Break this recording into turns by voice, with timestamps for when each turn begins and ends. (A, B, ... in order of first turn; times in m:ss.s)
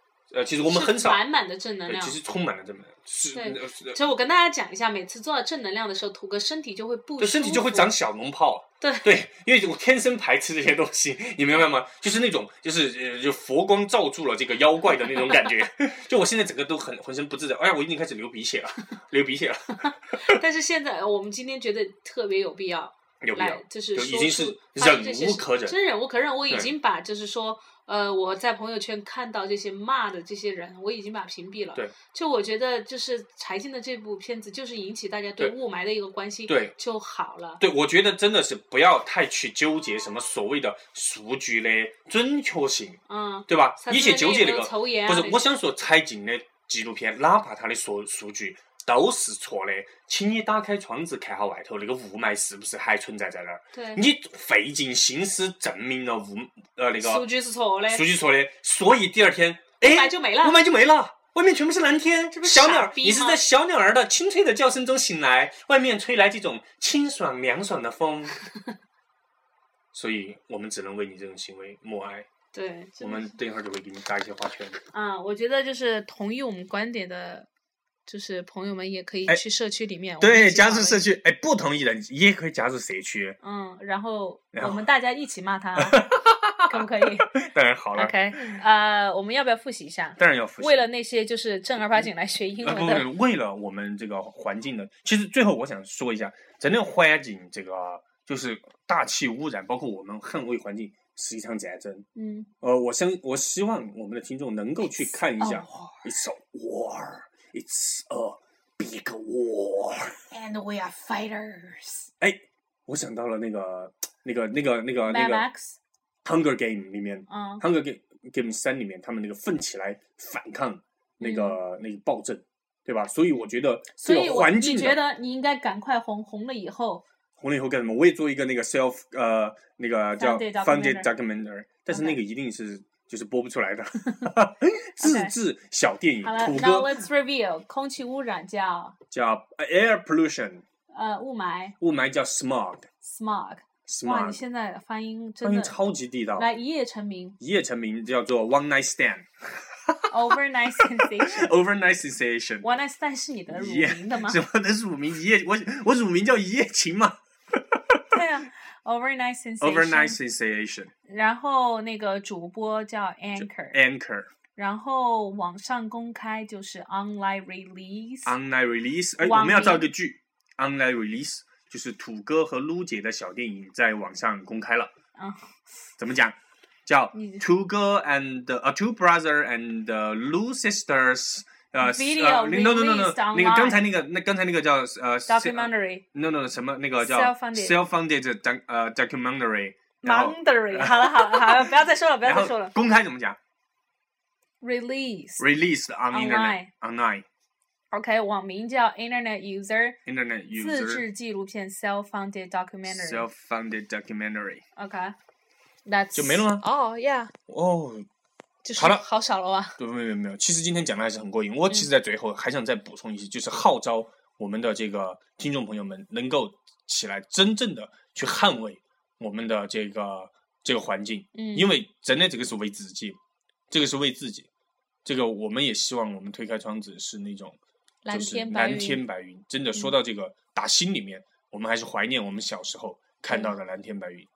0:00.3-0:01.2 A
0:00.6-0:02.2 B
0:01.8-0:04.0 A
0:03.3-0:07.9 B
0:07.2-0:20.4 A
0:08.8-0:09.1 B
0:15.0-0:15.6 B
0:19.8-0:37.6 B
0:23.2-0:25.7 A
0:36.5-0:36.7 A
0:37.6-0:57.3 A
0:43.1-0:45.4 B
0:53.7-0:54.0 B
0:57.0-0:58.0 B
0:57.9-1:08.4 A
0:59.8-1:00.6 B
1:02.4-1:03.4 B
1:09.9-1:12.3 A
1:12.5-1:13.4 B
1:13.0-1:14.8 A
1:14.9-1:17.5 B
1:18.0-1:21.0 B
1:20.2-1:23.4 A
1:23.4-1:26.0 B
1:24.5-1:24.9 A
1:25.8-1:28.6 A
1:26.7-1:27.3 B
1:27.9-1:33.1 B
1:30.2-1:30.9 A
1:32.6-1:42.0 A
1:42.1-1:42.5 B
1:42.6-1:50.2 A
1:44.8-1:46.1 B
1:50.3-1:52.1 B
1:52.2-1:55.4 A
1:55.0-1:55.8 B
1:56.2-2:05.0 A
1:57.3-1:57.6 B
2:01.2-2:01.6 B
2:04.0-2:07.0 B
2:07.4-2:17.0 A
2:10.2-2:11.1 B
2:11.9-2:12.2 B
2:15.0-2:15.3 B
2:16.2-2:18.9 B
2:19.1-2:20.6 A
2:20.9-2:21.7 B
2:21.8-2:22.9 A
2:23.0-2:25.8 B
2:23.9-2:24.4 A
2:25.4-2:26.5 A
2:26.4-2:27.4 B
2:27.4-2:32.7 A
2:30.1-2:31.5 B
2:32.6-2:34.4 B
2:33.5-2:38.0 A
2:38.1-2:40.2 B
2:39.6-2:40.9 A
2:41.1-2:43.8 B
2:43.4-2:44.3 A
2:44.6-2:48.3 B
2:48.2-2:54.9 A
2:49.2-2:49.9 B
2:55.2-2:55.6 B
2:56.0-3:13.4 A
2:57.1-2:57.4 B
3:01.8-3:03.8 B
3:05.3-3:06.0 B
3:07.0-3:07.8 B
3:10.0-3:12.7 B
3:14.6-3:15.4 B
3:15.4-3:17.2 A
3:16.1-3:16.7 B
3:17.9-3:20.0 B
3:20.0-3:21.0 A
3:20.6-3:23.2 B
3:22.9-3:24.6 A
3:24.8-3:25.1 B
3:25.8-3:27.3 B
3:26.1-3:26.6 A
3:27.5-3:28.0 A
3:28.6-3:29.8 B
3:28.8-3:29.0 A
3:29.8-3:43.2 A
3:41.3-3:41.7 B
3:43.7-3:44.5 A
3:45.0-3:47.6 A
3:48.0-3:49.0 B
3:48.1-3:54.3 A
3:53.3-3:53.5 B